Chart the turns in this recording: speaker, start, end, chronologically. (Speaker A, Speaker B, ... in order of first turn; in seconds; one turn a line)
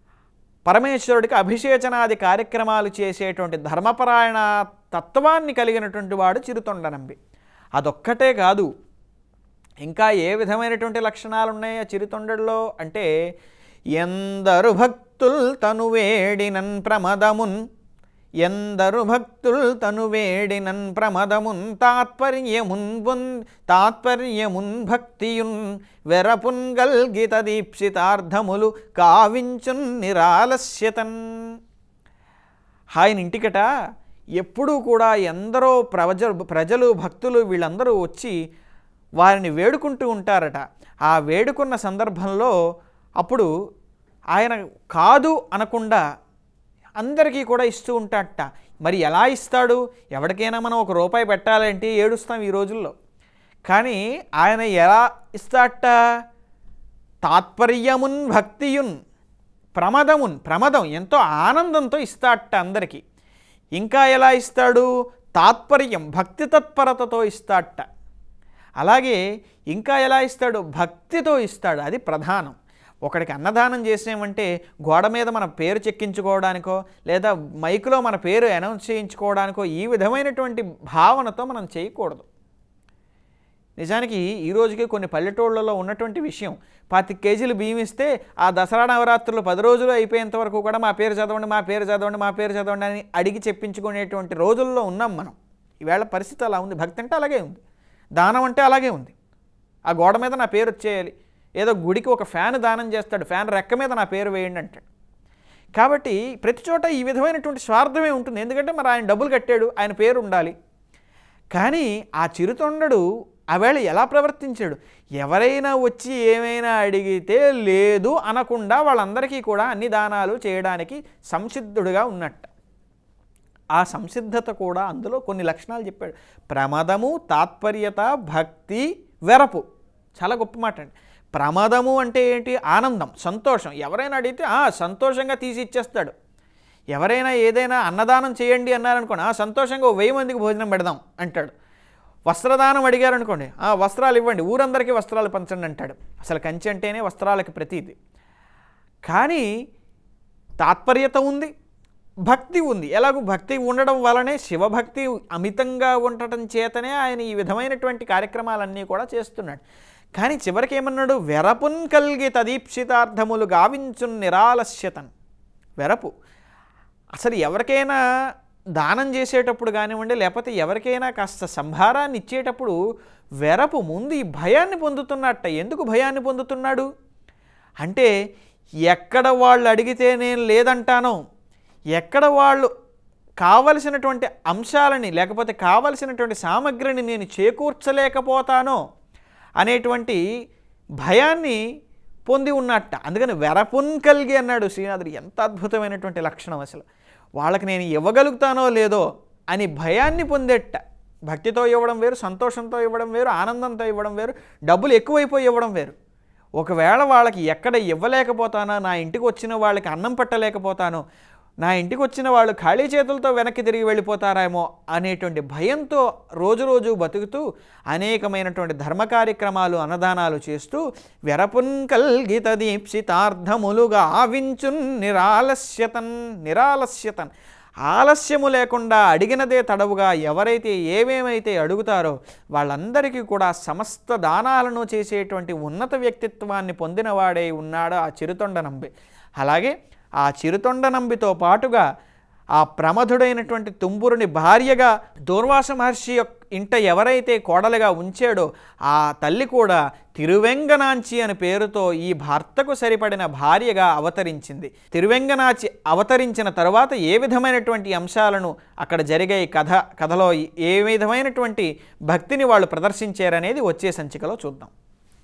Speaker A: 0.7-7.2
Speaker A: 7.8-8.7
Speaker A: 9.8-13.1
Speaker A: 14.0-17.6
Speaker A: 18.4-31.2
Speaker A: 33.0-33.7
Speaker A: 34.4-38.4
Speaker A: 39.2-42.5
Speaker A: 43.2-43.5
Speaker A: 44.4-46.0
Speaker A: 47.0-52.9
Speaker A: 53.7-56.0
Speaker A: 57.2-59.0
Speaker A: 59.8-63.0
Speaker A: 63.8-67.9
Speaker A: 68.8-69.2
Speaker A: 69.7-82.3
Speaker A: 83.8-97.6
Speaker A: 98.2-99.2
Speaker A: 99.9-104.9
Speaker A: 105.8-110.5
Speaker A: 111.5-122.5
Speaker A: 123.8-129.6
Speaker A: 130.2-136.1
Speaker A: 136.9-141.5
Speaker A: 142.3-147.9
Speaker A: 149.1-149.5
Speaker A: 150.6-151.5
Speaker A: 152.3-159.6
Speaker A: 160.2-165.1
Speaker A: 165.8-166.1
Speaker A: 167.2-168.0
Speaker A: 168.8-172.8
Speaker A: 173.4-176.9
Speaker A: 177.8-178.1
Speaker A: 178.9-181.2
Speaker A: 182.0-182.7
Speaker A: 183.4-188.8
Speaker A: 189.6-190.2
Speaker A: 191.0-191.6
Speaker A: 192.3-196.9
Speaker A: 197.4-206.0
Speaker A: 206.6-211.0
Speaker A: 211.6-227.3
Speaker A: 227.9-241.8
Speaker A: 242.6-264.7